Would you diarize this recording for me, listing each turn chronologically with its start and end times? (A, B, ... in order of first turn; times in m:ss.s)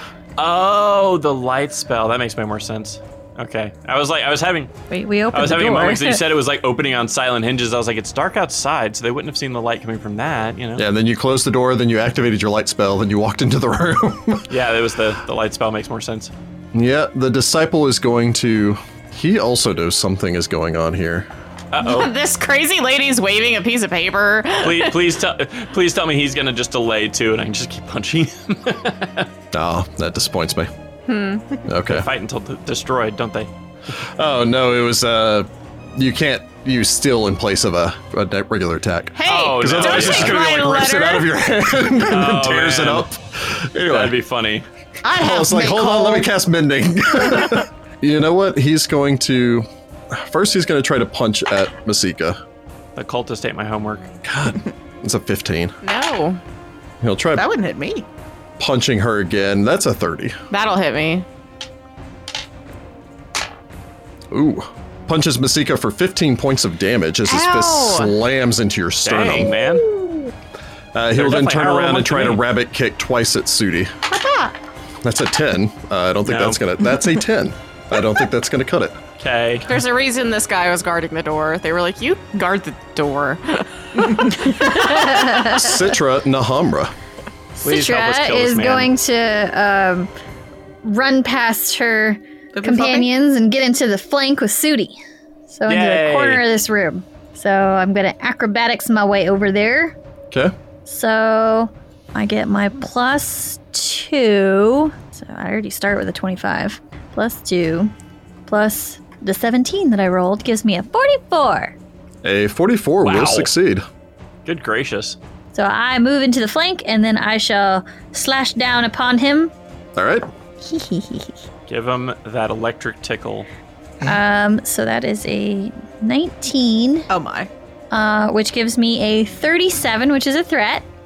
0:00.4-0:04.7 A
0:04.9-0:06.2 B
0:05.3-0:10.8 A
0:10.8-0:14.5 C
0:14.5-0:16.3 A
0:16.7-0:21.3 C
0:21.7-0:22.1 A
0:21.8-0:25.0 D
0:24.6-0:29.3 A
0:29.5-0:30.7 C
0:31.1-0:31.5 D
0:31.7-0:32.1 C
0:31.9-0:33.5 A
0:34.2-0:44.2 C
0:39.2-0:41.3 D
0:39.2-0:40.7 A
0:42.0-0:43.1 A
0:43.8-0:44.7 A
0:45.0-0:46.3 E
0:45.2-0:52.4 C
0:53.0-0:54.1 A
0:54.2-0:55.7 C
0:55.8-0:56.4 D
0:57.0-0:57.5 C
0:57.4-0:58.1 E
0:58.6-1:00.4 C
1:00.5-1:01.3 D
1:04.3-1:09.5 C
1:07.3-1:08.1 D
1:09.0-1:09.9 A
1:11.0-1:13.9 C
1:11.2-1:12.5 A
1:14.1-1:14.6 E
1:15.0-1:19.0 C
1:16.3-1:16.6 A
1:19.2-1:19.7 A
1:19.7-1:24.7 D
1:24.5-1:25.8 B
1:25.3-1:26.9 C
1:27.6-1:30.1 B
1:27.6-1:28.9 A
1:30.8-1:35.0 B
1:32.5-1:33.1 E
1:35.5-1:40.0 B
1:35.7-1:36.4 A
1:40.9-1:47.9 B
1:48.5-1:51.8 B
1:52.2-1:53.8 C
1:53.0-1:53.5 A
1:54.5-1:55.2 A
1:55.5-1:59.5 B
2:00.0-2:00.3 C
2:00.6-2:01.4 B
2:01.7-2:03.5 A
2:04.0-2:07.1 B
2:07.1-2:07.5 E
2:07.9-2:10.8 B